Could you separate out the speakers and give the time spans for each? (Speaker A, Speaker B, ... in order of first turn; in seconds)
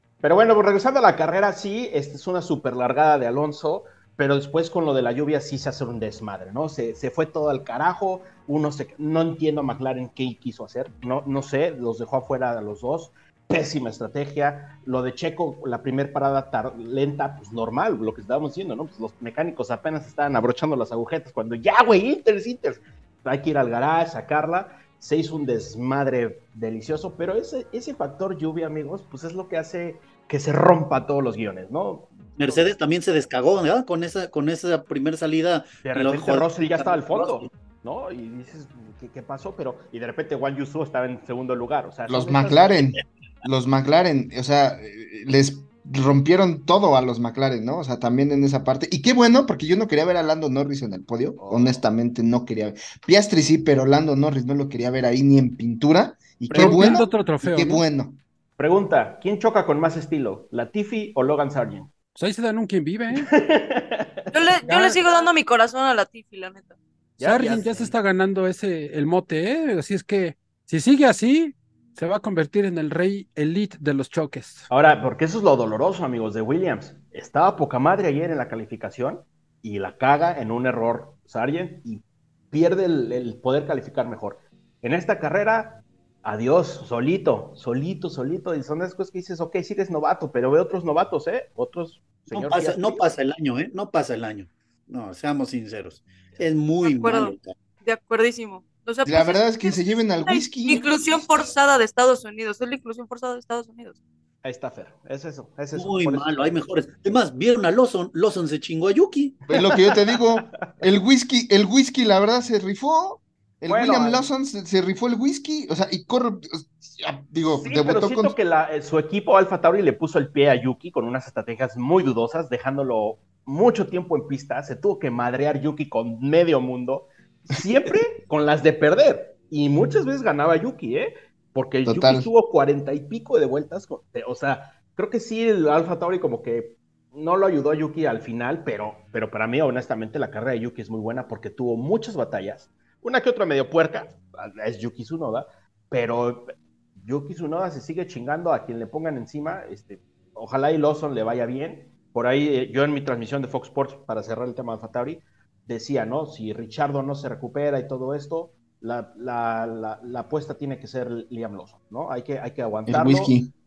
Speaker A: 0.2-32.7, 35.8-43.0, 51.4-51.8, 56.5-57.1, 58.6-61.9, 63.1-65.3, 67.2-67.9, 74.7-93.0, 104.4-106.6, 113.7-114.2, 117.5-163.3
Speaker B: 32.4-37.5, 92.3-97.5, 105.7-109.4
Speaker C: 42.1-58.2, 99.1-101.0, 109.5-118.4, 131.9-132.3, 162.9-163.5
Speaker D: 56.5-57.8, 62.2-63.3, 67.2-74.7
Speaker E: 64.3-66.8, 96.8-104.0